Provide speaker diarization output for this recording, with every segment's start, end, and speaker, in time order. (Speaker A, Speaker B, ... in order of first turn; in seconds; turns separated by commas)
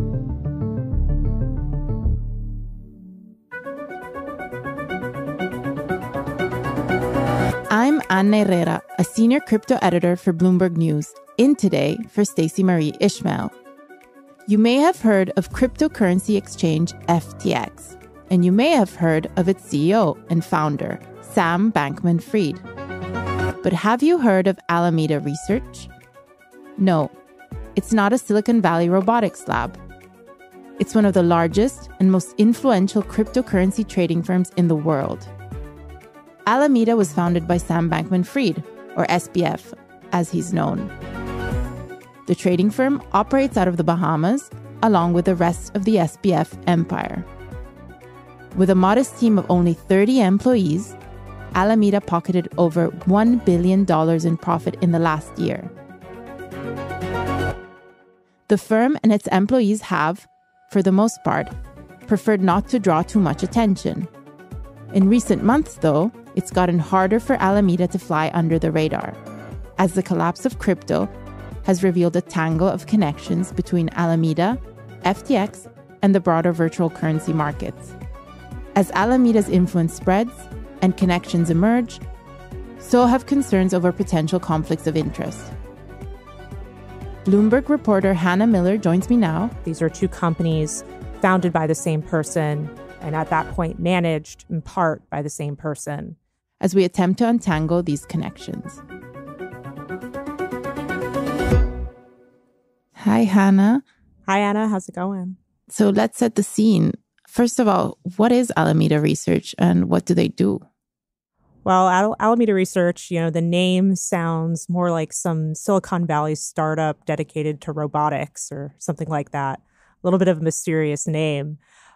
Speaker A: 7.7-13.5, Speaker A: 14.5-22.6, Speaker A: 23.6-25.9, Speaker A: 26.8-27.1, Speaker A: 27.8-29.8, Speaker A: 30.8-35.3, Speaker A: 36.5-40.9, Speaker A: 42.3-47.3, Speaker A: 48.5-51.0, Speaker A: 51.5-55.7, Speaker A: 58.5-61.5, Speaker A: 62.1-64.1, Speaker A: 64.9-69.2, Speaker A: 69.8-71.1, Speaker A: 71.6-77.9, Speaker A: 78.7-82.0, Speaker A: 82.8-85.5, Speaker A: 87.2-89.5, Speaker B: 89.6-96.2, Speaker A: 96.6-98.8, Speaker A: 103.0-103.8, Speaker B: 104.3-105.4, Speaker A: 105.7-110.6, Speaker B: 111.6-121.6